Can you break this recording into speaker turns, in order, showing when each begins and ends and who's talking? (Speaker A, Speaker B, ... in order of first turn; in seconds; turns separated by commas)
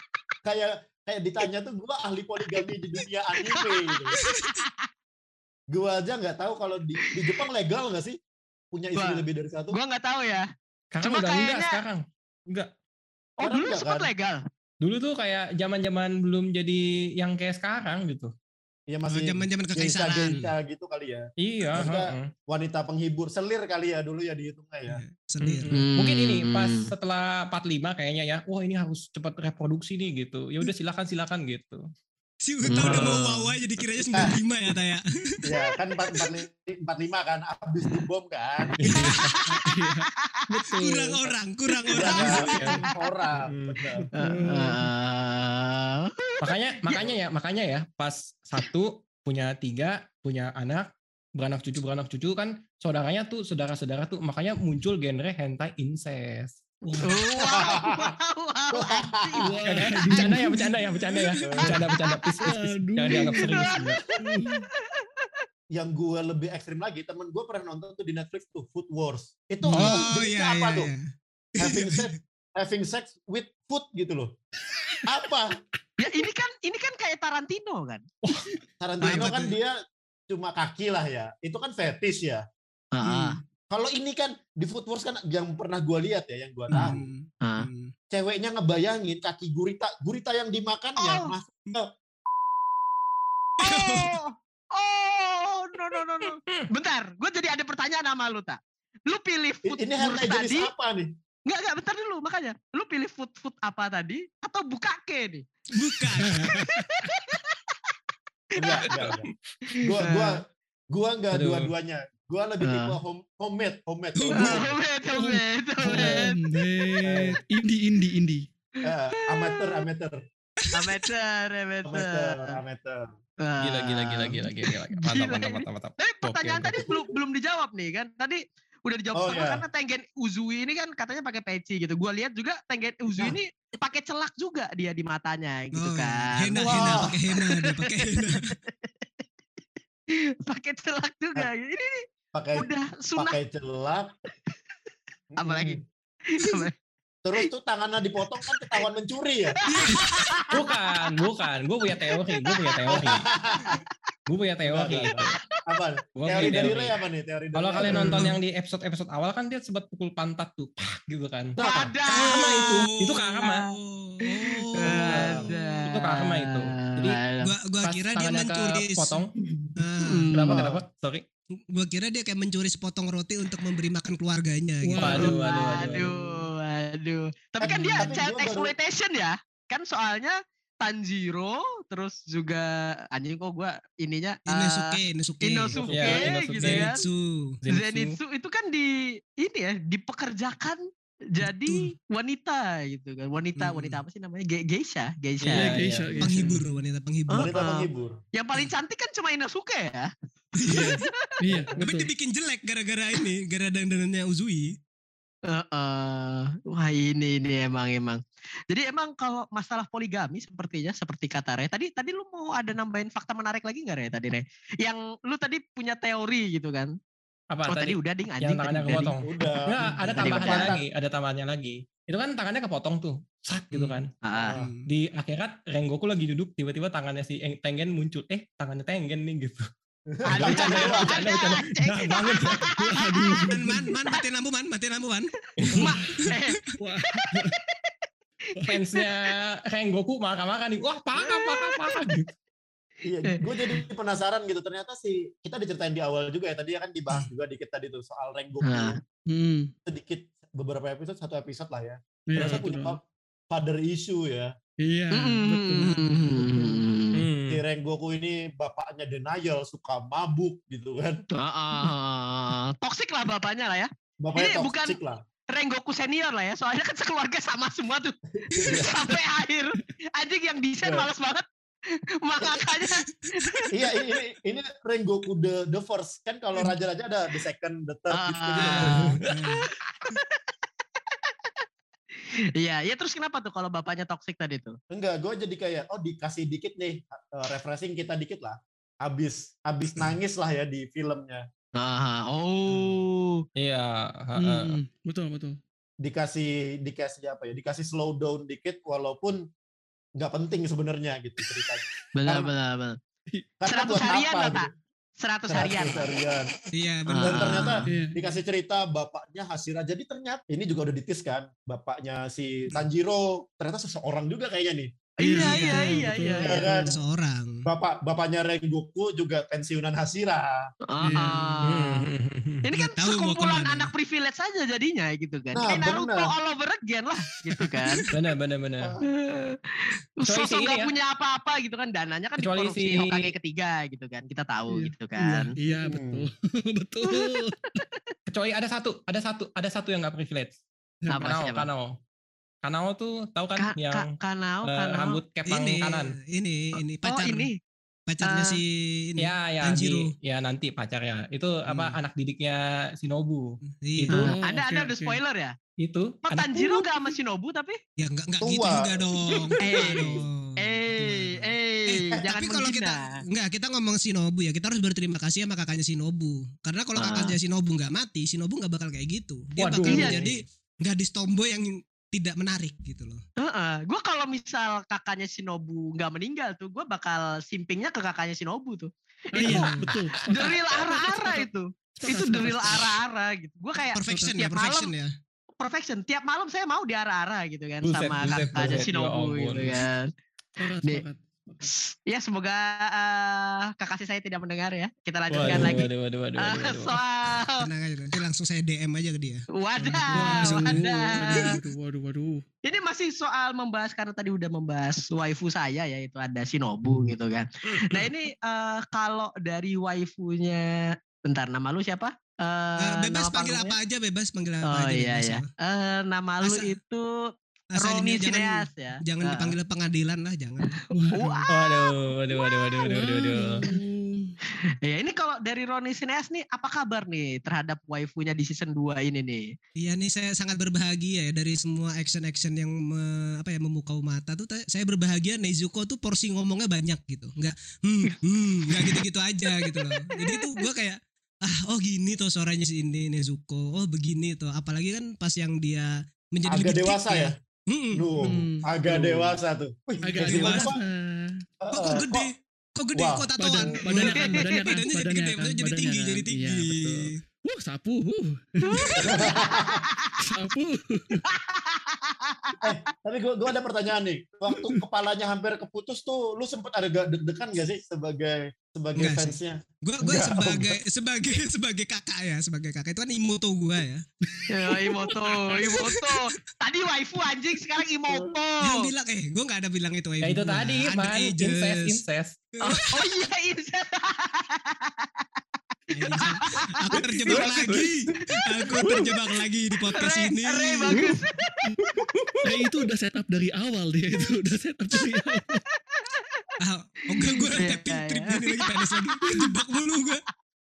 Speaker A: 0.4-4.1, Speaker B: 3.5-4.8, Speaker C: 4.2-4.6, Speaker A: 5.7-8.2, Speaker B: 7.0-7.4, Speaker A: 8.7-9.8, Speaker B: 8.9-10.4, Speaker D: 10.9-12.7, Speaker B: 11.0-11.8, Speaker A: 13.4-14.1, Speaker B: 13.4-14.4, Speaker D: 14.8-18.3, Speaker A: 18.9-25.0, Speaker C: 19.1-20.5, Speaker D: 21.4-22.3, Speaker C: 24.9-25.7, Speaker D: 25.4-31.8, Speaker B: 25.7-26.9, Speaker C: 32.4-35.4, Speaker D: 32.7-33.2, Speaker A: 32.7-33.5, Speaker A: 35.5-38.8, Speaker D: 38.8-39.3, Speaker C: 38.8-39.4, Speaker B: 39.3-39.7, Speaker E: 39.5-41.2, Speaker C: 40.7-42.8, Speaker B: 41.7-43.1, Speaker A: 42.0-44.1, Speaker D: 42.5-42.8, Speaker D: 43.3-43.8, Speaker B: 44.2-47.1, Speaker E: 44.2-44.8, Speaker D: 46.4-57.1, Speaker B: 57.0-59.5, Speaker A: 57.4-58.1, Speaker A: 58.7-59.6, Speaker E: 59.4-60.5, Speaker D: 59.6-64.0, Speaker C: 60.1-61.8, Speaker A: 61.4-61.9, Speaker E: 62.4-64.7, Speaker B: 63.5-63.8, Speaker B: 64.9-65.3, Speaker A: 65.7-70.9, Speaker C: 69.6-71.0, Speaker D: 69.8-70.0, Speaker C: 71.5-72.1, Speaker A: 71.6-74.3, Speaker A: 75.1-75.5, Speaker B: 76.0-78.0, Speaker A: 78.8-79.7, Speaker C: 79.0-79.5, Speaker A: 80.3-82.4, Speaker B: 82.9-83.4, Speaker C: 83.0-83.4, Speaker A: 83.7-87.1, Speaker C: 86.7-87.9, Speaker B: 86.7-87.7, Speaker A: 88.1-91.9, Speaker B: 91.0-91.3, Speaker C: 93.6-94.2, Speaker B: 93.6-100.7, Speaker A: 99.7-101.1, Speaker B: 101.5-105.4, Speaker C: 105.7-106.6, Speaker B: 106.0-107.6, Speaker D: 106.2-106.7, Speaker A: 108.5-109.2, Speaker B: 108.6-108.8, Speaker D: 108.9-109.3, Speaker B: 109.7-110.3, Speaker A: 109.8-114.7, Speaker D: 111.3-111.7, Speaker B: 112.6-113.0, Speaker C: 114.2-114.7, Speaker B: 114.4-116.3, Speaker E: 115.1-118.5, Speaker A: 117.0-117.4, Speaker A: 118.8-120.2, Speaker B: 119.3-119.8, Speaker C: 120.6-121.0, Speaker B: 120.7-122.5, Speaker A: 121.9-123.1, Speaker B: 123.4-124.5, Speaker D: 123.6-126.7, Speaker B: 125.0-139.2, Speaker A: 129.2-129.6, Speaker C: 135.7-138.5, Speaker A: 136.6-137.2, Speaker B: 140.4-142.0, Speaker A: 142.3-144.1, Speaker B: 142.5-143.4, Speaker A: 145.3-145.8, Speaker B: 145.4-145.8, Speaker B: 146.3-146.7, Speaker A: 147.2-149.5, Speaker B: 148.4-148.8, Speaker B: 149.6-150.7, Speaker C: 149.7-150.5, Speaker D: 150.5-153.2, Speaker B: 152.0-153.8, Speaker A: 152.9-153.8, Speaker D: 154.3-155.3, Speaker A: 154.6-158.3, Speaker B: 155.1-155.4, Speaker D: 156.2-156.9, Speaker B: 156.4-156.7, Speaker D: 157.5-163.6, Speaker B: 161.6-162.8, Speaker A: 161.6-161.9, Speaker C: 162.1-165.5, Speaker B: 163.4-163.7, Speaker B: 164.4-167.5, Speaker D: 164.9-167.2, Speaker C: 167.4-169.2, Speaker D: 167.8-169.3, Speaker C: 169.8-170.3, Speaker E: 170.0-170.7, Speaker D: 170.3-171.2, Speaker C: 171.7-175.4, Speaker E: 174.8-176.1, Speaker D: 175.0-176.1, Speaker B: 175.2-187.0, Speaker C: 177.6-178.1, Speaker A: 177.7-178.7, Speaker C: 184.5-187.6, Speaker D: 185.9-186.9, Speaker D: 187.6-188.2, Speaker B: 187.7-195.8, Speaker C: 191.4-191.9, Speaker C: 193.6-194.0, Speaker D: 195.4-196.4, Speaker E: 195.5-196.6, Speaker C: 196.2-197.5, Speaker B: 197.3-200.1, Speaker A: 197.3-198.2, Speaker C: 200.6-201.0, Speaker B: 200.6-201.2, Speaker E: 200.7-202.1, Speaker C: 201.8-204.8, Speaker B: 205.5-216.9, Speaker D: 217.5-224.1, Speaker B: 217.7-219.1, Speaker A: 219.2-220.8, Speaker B: 220.2-220.7, Speaker C: 223.7-224.9, Speaker B: 224.2-224.6, Speaker A: 224.4-224.7, Speaker D: 224.9-229.6, Speaker A: 230.2-231.3, Speaker B: 230.3-233.4, Speaker D: 230.3-232.8, Speaker E: 232.7-233.9, Speaker C: 233.4-235.3, Speaker E: 235.7-236.1, Speaker B: 235.7-237.9, Speaker E: 236.8-237.6, Speaker B: 238.7-239.3, Speaker D: 238.7-242.3, Speaker B: 241.2-241.9, Speaker A: 243.1-249.0, Speaker B: 243.3-243.8, Speaker B: 248.6-248.9, Speaker E: 249.3-249.7, Speaker A: 249.8-253.0, Speaker E: 252.3-253.0, Speaker A: 253.5-254.5, Speaker E: 254.8-256.8, Speaker B: 255.1-257.2, Speaker D: 257.1-257.6, Speaker A: 257.5-261.2, Speaker B: 261.4-265.0, Speaker A: 264.2-265.2, Speaker B: 265.5-271.4, Speaker A: 268.4-269.0, Speaker C: 268.5-268.9, Speaker B: 272.2-273.6, Speaker C: 272.5-273.9, Speaker A: 273.7-279.2, Speaker B: 278.1-280.4, Speaker C: 278.6-280.1, Speaker B: 281.1-281.6, Speaker B: 282.6-284.8, Speaker A: 284.9-291.4, Speaker B: 291.8-293.4, Speaker D: 293.6-294.8, Speaker E: 294.4-295.6, Speaker A: 296.0-299.4, Speaker A: 300.2-302.5, Speaker B: 302.1-303.0, Speaker A: 303.6-304.7, Speaker B: 303.7-304.7, Speaker B: 305.2-306.1, Speaker A: 305.5-306.5, Speaker C: 306.7-307.8, Speaker B: 307.1-307.8, Speaker A: 307.2-315.0, Speaker E: 307.9-308.2, Speaker B: 315.2-316.6, Speaker E: 315.2-316.9, Speaker C: 315.3-316.0, Speaker A: 316.4-316.9, Speaker C: 316.6-317.6, Speaker A: 317.6-320.7, Speaker B: 320.9-322.0, Speaker E: 321.0-321.6, Speaker D: 321.6-322.6, Speaker B: 322.6-328.1, Speaker C: 322.7-323.9, Speaker A: 325.5-326.3, Speaker C: 327.7-328.1, Speaker D: 328.1-328.9, Speaker B: 329.1-335.4, Speaker D: 330.2-330.9, Speaker D: 332.4-333.3, Speaker E: 334.7-337.8, Speaker A: 335.8-336.2, Speaker B: 337.0-337.4, Speaker D: 338.3-340.6, Speaker B: 341.1-341.7, Speaker D: 341.1-341.9, Speaker D: 342.6-344.1, Speaker B: 343.6-345.2, Speaker D: 344.6-346.1, Speaker C: 345.5-347.5, Speaker B: 347.0-347.5, Speaker C: 348.1-350.1, Speaker B: 348.2-348.6, Speaker D: 349.2-354.3, Speaker C: 351.7-352.0, Speaker C: 353.7-354.3, Speaker E: 354.1-355.2, Speaker B: 354.2-355.5, Speaker D: 355.8-356.9, Speaker B: 356.2-357.8, Speaker C: 358.0-373.2, Speaker A: 358.4-359.1, Speaker E: 359.6-360.2, Speaker B: 359.6-363.2, Speaker B: 367.0-367.4, Speaker D: 369.6-370.3, Speaker B: 369.9-370.3, Speaker B: 373.4-379.8, Speaker E: 379.3-383.0, Speaker C: 379.4-379.9, Speaker D: 379.4-379.9, Speaker B: 380.3-384.9, Speaker C: 383.9-385.1, Speaker E: 384.1-384.5, Speaker B: 385.6-390.1, Speaker D: 387.8-389.9, Speaker C: 388.2-388.7, Speaker E: 390.6-391.6, Speaker B: 391.6-395.9, Speaker D: 395.3-397.0, Speaker B: 396.4-397.6, Speaker C: 397.6-399.4, Speaker B: 399.5-401.5, Speaker E: 399.8-402.4, Speaker C: 400.1-401.6, Speaker B: 402.6-410.6, Speaker C: 406.9-407.1, Speaker B: 411.3-413.8, Speaker C: 412.8-415.5, Speaker B: 414.7-417.0, Speaker C: 416.4-416.7, Speaker C: 417.7-420.7, Speaker B: 417.8-419.5, Speaker B: 420.6-421.9, Speaker E: 420.9-421.4, Speaker D: 421.5-423.7, Speaker E: 422.9-424.3, Speaker B: 424.8-429.5, Speaker C: 429.8-448.2, Speaker B: 439.7-440.7, Speaker A: 446.5-447.4, Speaker A: 447.9-450.8, Speaker E: 448.2-448.8, Speaker C: 448.9-449.4, Speaker C: 450.0-450.8, Speaker E: 450.0-451.4, Speaker A: 451.6-452.3, Speaker C: 451.7-457.2, Speaker A: 452.9-453.7, Speaker E: 453.4-459.3, Speaker B: 454.1-454.4, Speaker B: 458.6-460.2, Speaker A: 459.0-459.8, Speaker E: 460.2-461.2, Speaker B: 461.2-462.7, Speaker A: 462.6-470.8, Speaker C: 469.0-474.1, Speaker E: 474.3-475.4, Speaker B: 474.5-478.9, Speaker C: 475.6-476.2, Speaker C: 478.6-482.0, Speaker D: 480.2-482.4, Speaker C: 482.5-483.1, Speaker B: 482.6-485.1, Speaker C: 485.9-491.0, Speaker B: 486.0-487.8, Speaker D: 487.2-487.9, Speaker B: 488.6-489.1, Speaker B: 489.9-491.7, Speaker E: 490.9-491.7, Speaker D: 492.0-492.4, Speaker E: 492.4-495.6, Speaker B: 495.9-496.5, Speaker C: 496.6-500.2, Speaker B: 497.1-499.5